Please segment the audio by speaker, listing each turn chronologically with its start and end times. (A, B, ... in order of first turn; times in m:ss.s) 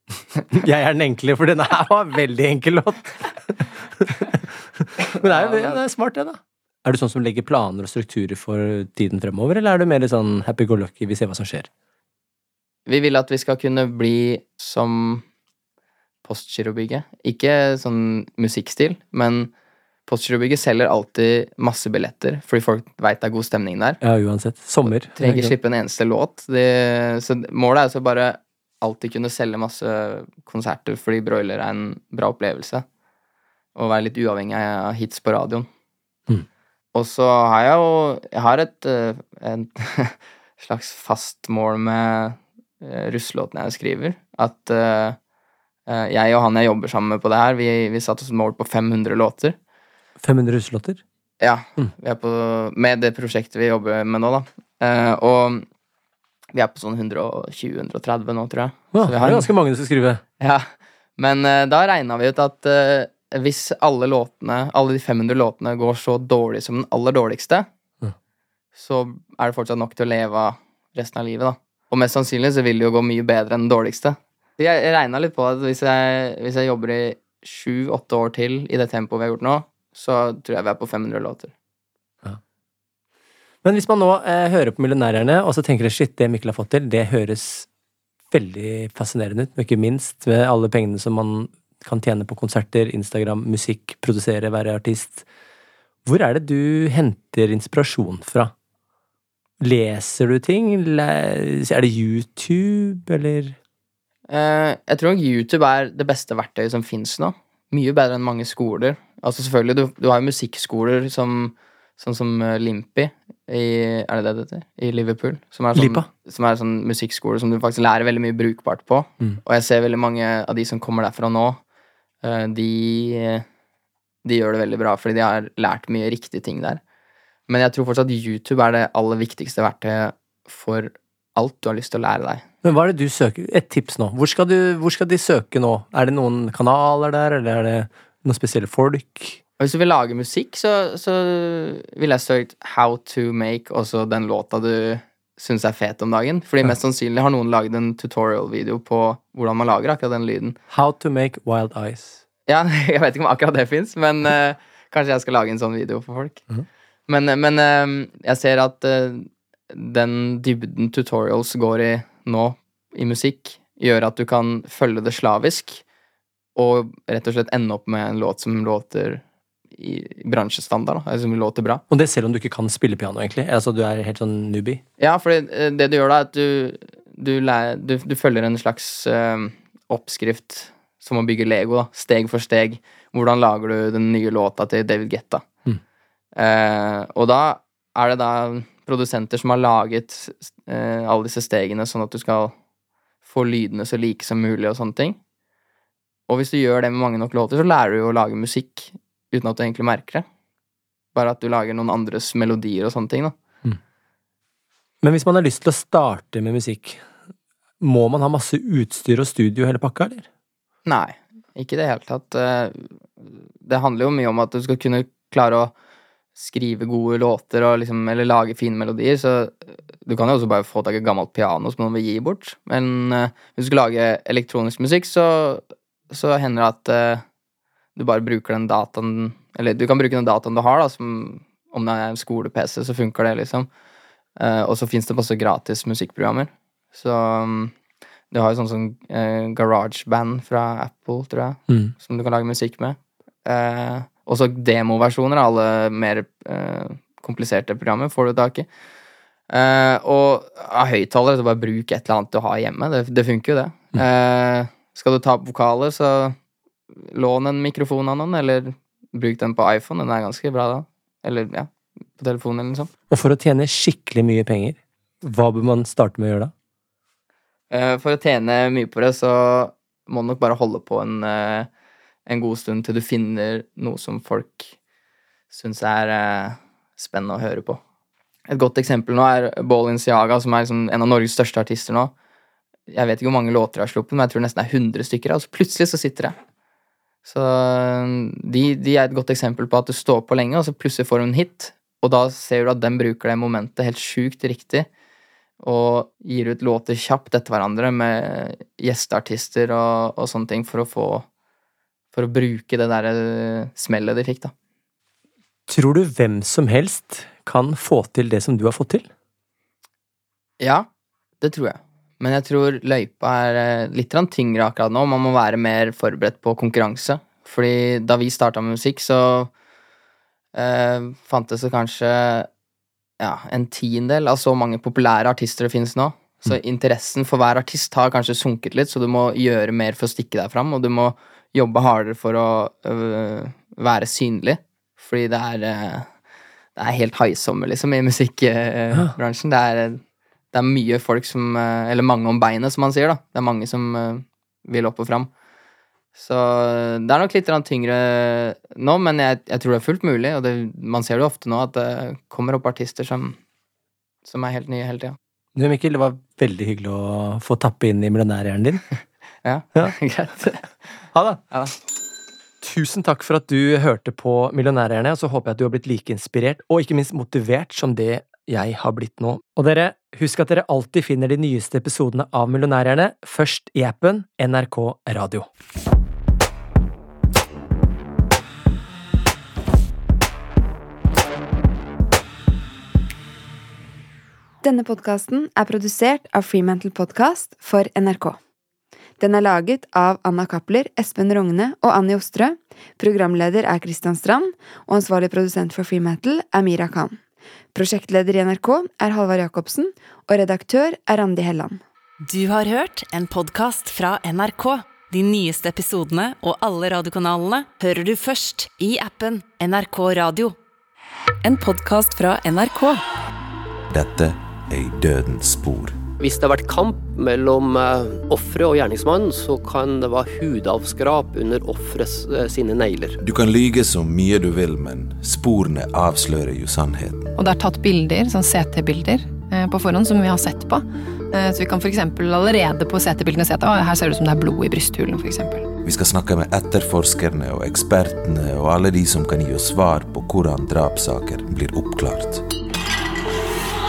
0:00.5-0:11.7 A
0:05.1-0:05.8 B
0:12.9-0:15.2 B
0:16.2-0:19.5 B
0:20.1-0:24.0 B
0:24.0-0:25.5 A
0:24.8-0:32.8 B
0:33.7-0:35.7 B
0:36.9-0:45.2 B
0:45.9-0:49.6 B
0:50.2-0:51.0 A
0:51.4-0:55.6 B
0:56.5-0:59.5 B
0:58.9-1:00.2 A
1:00.4-1:00.7 B
1:01.2-1:07.7 B
1:08.8-1:21.5 B
1:23.6-1:27.7 A
1:28.3-1:35.2 A
1:36.0-1:38.5 A
1:39.6-1:43.6 A
1:44.3-2:01.6 B
1:55.7-1:56.1 A
2:02.2-2:03.4 B
2:04.2-2:06.8 B
2:07.5-2:12.4 B
2:12.6-2:19.4 A
2:19.6-2:30.6 B
2:30.7-2:32.2 A
2:32.5-2:36.4 B
2:37.1-2:45.8 B
2:46.6-2:49.2 B
2:49.7-2:51.8 B
2:51.9-2:54.8 A
2:55.0-3:05.4 B
3:06.4-3:12.5 B
3:13.2-3:15.2 B
3:16.3-3:20.2 B
3:21.1-3:23.3 B
3:25.0-3:27.0 A
3:27.8-3:30.3 A
3:30.8-3:35.7 B
3:36.4-3:47.2 B
3:48.0-3:53.7 B
3:54.4-3:57.7 B
3:58.3-4:08.7 B
4:09.5-4:16.3 B
4:17.0-4:22.9 B
4:23.1-4:26.5 A
4:27.7-4:31.7 B
4:32.3-4:34.7 B
4:35.5-4:37.8 B
4:38.5-4:42.1 B
4:42.9-4:46.3 B
4:47.2-4:54.9 B
4:55.6-5:01.2 B
5:02.1-5:04.5 B
5:05.7-5:09.1 A
5:10.6-5:10.9 B
5:11.4-5:19.5 B
5:20.5-5:22.5 B
5:23.2-5:36.1 B
5:36.8-5:45.3 B
5:46.2-5:53.4 B
5:54.2-5:55.2 B
5:55.6-5:58.8 A
5:59.4-6:00.7 B
6:01.1-6:01.4 A
6:02.6-6:15.5 A
6:24.6-6:28.4 C
6:29.2-6:37.2 C
6:37.7-6:41.8 C
6:42.2-6:50.5 D
6:51.4-6:53.0 D
6:53.9-6:56.0 E
6:56.2-7:03.2 F
7:03.2-7:07.3 E
7:07.4-7:15.7 G
7:15.8-7:22.4 E